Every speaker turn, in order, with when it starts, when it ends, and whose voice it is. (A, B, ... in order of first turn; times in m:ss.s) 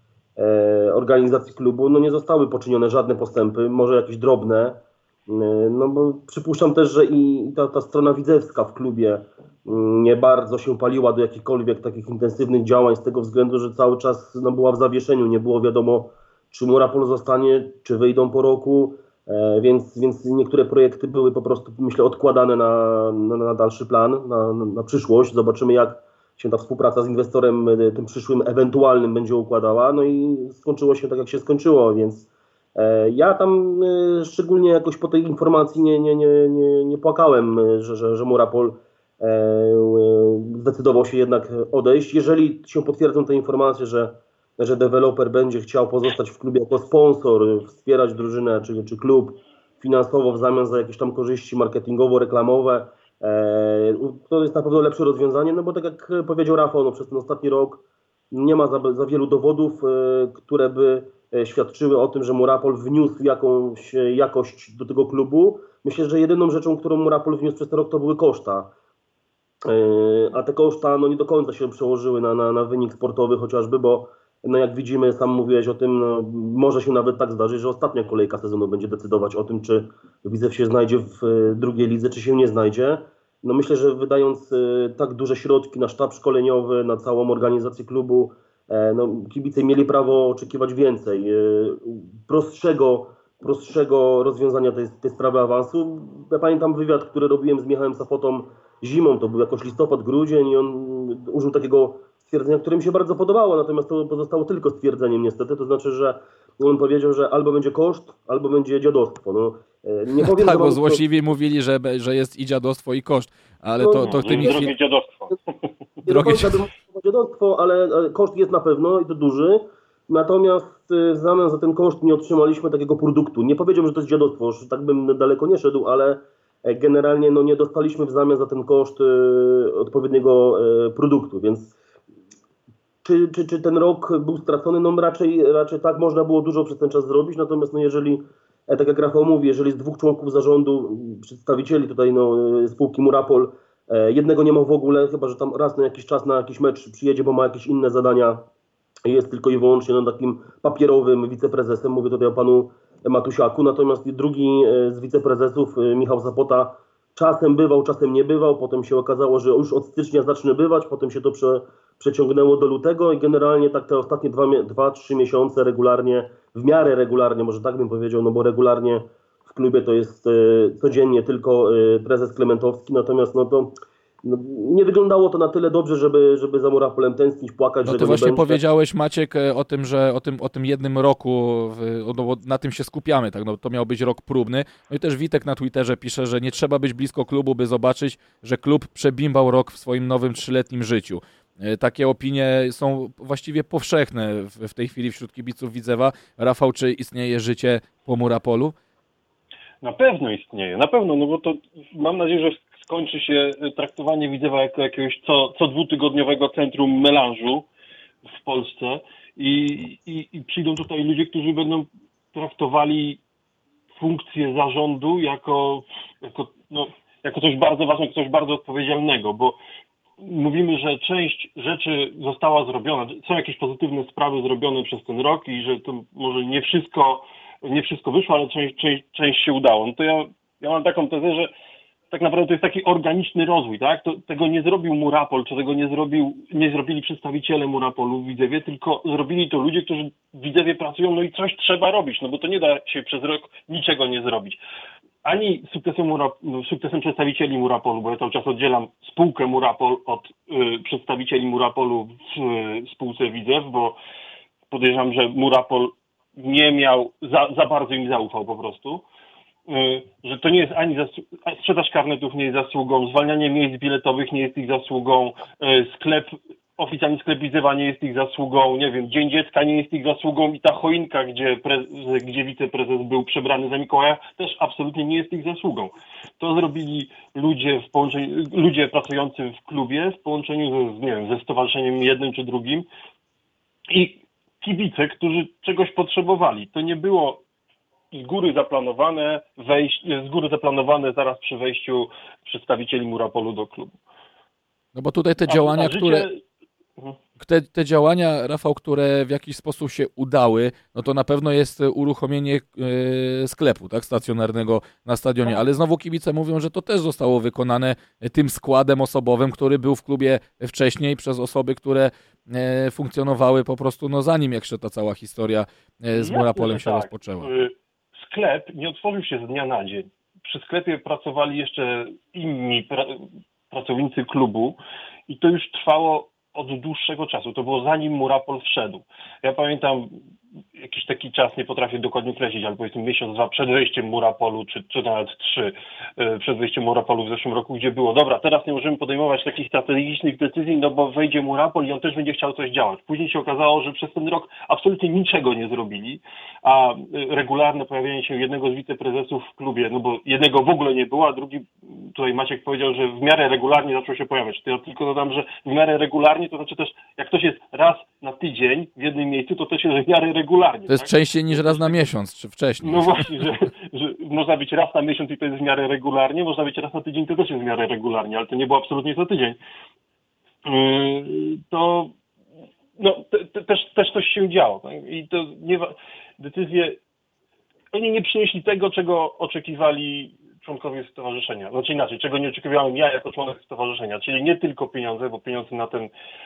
0:00.4-1:08.7 A
1:09.6-1:51.0 A
1:50.2-1:54.7 B
1:53.8-1:54.7 A
1:54.0-1:55.4 C
1:56.0-2:11.8 A
1:56.1-1:56.6 B
2:13.0-2:28.4 A
2:29.0-2:58.6 A
2:57.8-3:18.8 B
3:19.8-3:27.7 C
3:28.3-3:33.2 C
3:34.0-3:39.6 C
3:40.2-3:51.5 C
3:52.1-4:04.6 C
4:05.2-4:14.0 C
4:14.7-4:19.0 C
4:19.7-4:42.9 C
4:43.9-4:47.4 C
4:48.1-4:54.0 C
4:54.9-4:56.3 B
4:55.5-4:56.4 C
4:57.4-5:17.5 B
5:16.1-5:30.1 C
5:30.8-6:02.0 C
6:00.9-6:03.5 B
6:02.8-6:09.6 C
6:10.6-6:12.1 C
6:13.0-6:17.0 C
6:17.9-6:26.1 C